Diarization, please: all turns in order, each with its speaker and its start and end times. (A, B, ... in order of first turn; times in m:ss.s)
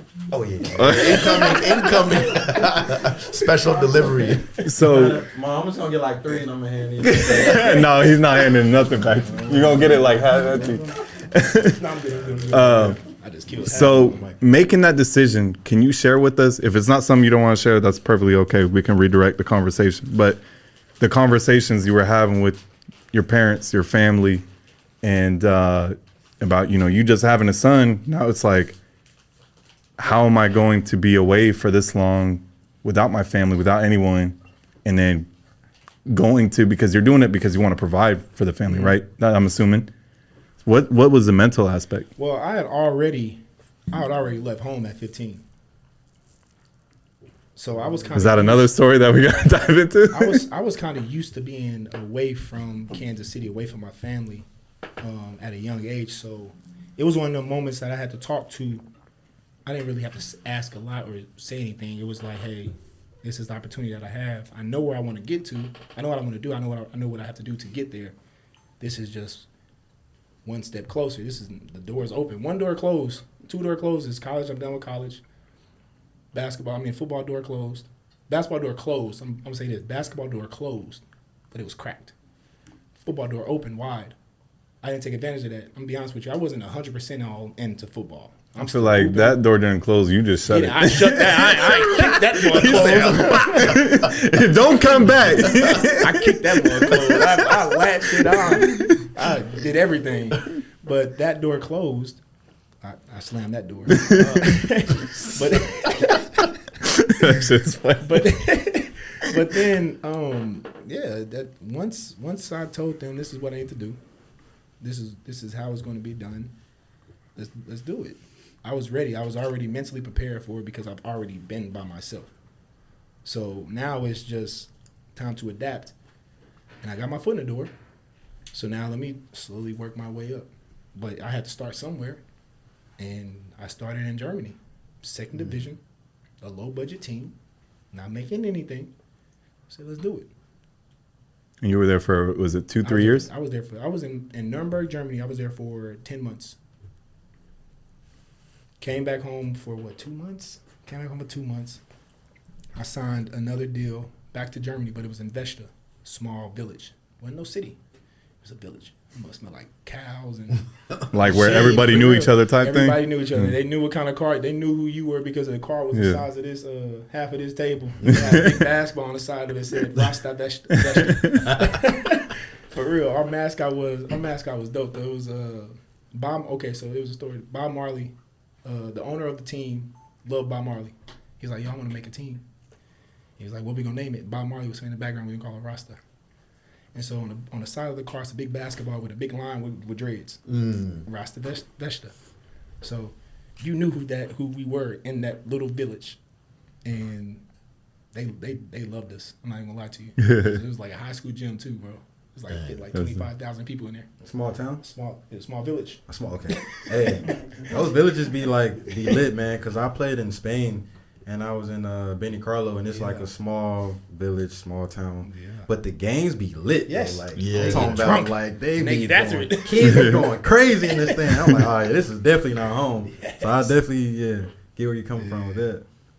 0:00.3-0:01.8 A
0:00.8-0:01.6 B
0:00.8-0:04.5 C
0:03.7-0:04.4 D
0:04.6-0:05.2 B
0:04.7-0:08.1 A
0:07.0-0:11.8 B
0:09.2-0:10.2 A
0:10.3-0:10.9 D
0:11.7-0:14.3 D
0:12.1-0:12.6 A
0:12.5-0:13.0 B
0:13.6-0:20.4 B
0:13.7-0:14.4 A
0:21.0-0:22.6 B
0:23.1-0:24.4 B
0:25.0-0:28.8 B
0:30.0-0:35.3 B
0:36.1-0:39.9 B
0:40.6-0:42.1 B
0:42.2-0:45.4 D
0:47.6-0:48.7 D
0:48.1-0:50.4 B
0:50.1-0:54.4 D
0:55.0-0:58.8 D
0:59.6-1:08.1 D
1:08.8-1:09.5 D
1:10.4-1:15.2 D
1:16.3-1:22.1 D
1:23.0-1:24.1 D
1:24.8-1:29.4 D
1:28.6-1:37.2 B
1:30.5-1:33.8 D
1:33.2-1:33.8 C
1:35.1-1:35.8 C
1:35.2-1:42.2 D
1:38.3-1:38.9 B
1:42.8-1:46.5 D
1:44.0-1:44.3 B
1:44.1-1:44.5 A
1:47.0-1:48.3 B
1:48.0-1:54.0 D
1:54.8-1:56.5 D
1:57.4-2:02.3 D
2:03.2-2:05.9 D
2:06.8-2:07.7 D
2:08.5-2:12.2 D
2:13.0-2:15.8 D
2:16.4-2:17.3 D
2:17.9-2:18.9 D
2:19.7-2:20.3 D
2:21.6-2:23.3 B
2:22.8-2:26.6 D
2:28.8-2:31.8 D
2:32.8-2:37.8 D
2:38.4-2:40.6 D
2:41.1-2:43.5 B
2:41.2-3:02.4 D
2:41.2-2:41.8 C
2:45.9-2:46.2 B
3:03.4-3:06.0 D
3:06.9-3:10.4 D
3:10.5-3:11.0 C
3:11.0-3:12.1 D
3:12.8-3:16.2 D
3:16.8-3:17.4 D
3:18.1-3:24.1 D
3:20.2-3:20.5 B
3:22.5-3:22.8 C
3:22.9-3:23.2 B
3:24.2-3:24.8 A
3:24.8-3:26.0 D
3:26.1-3:45.8 A
3:27.0-3:27.7 D
3:32.9-3:33.3 D
3:35.2-3:35.7 D
3:36.8-3:40.3 D
3:37.3-3:38.2 C
3:39.8-3:40.2 B
3:40.8-3:41.5 D
3:43.1-3:43.7 D
3:45.2-3:45.7 D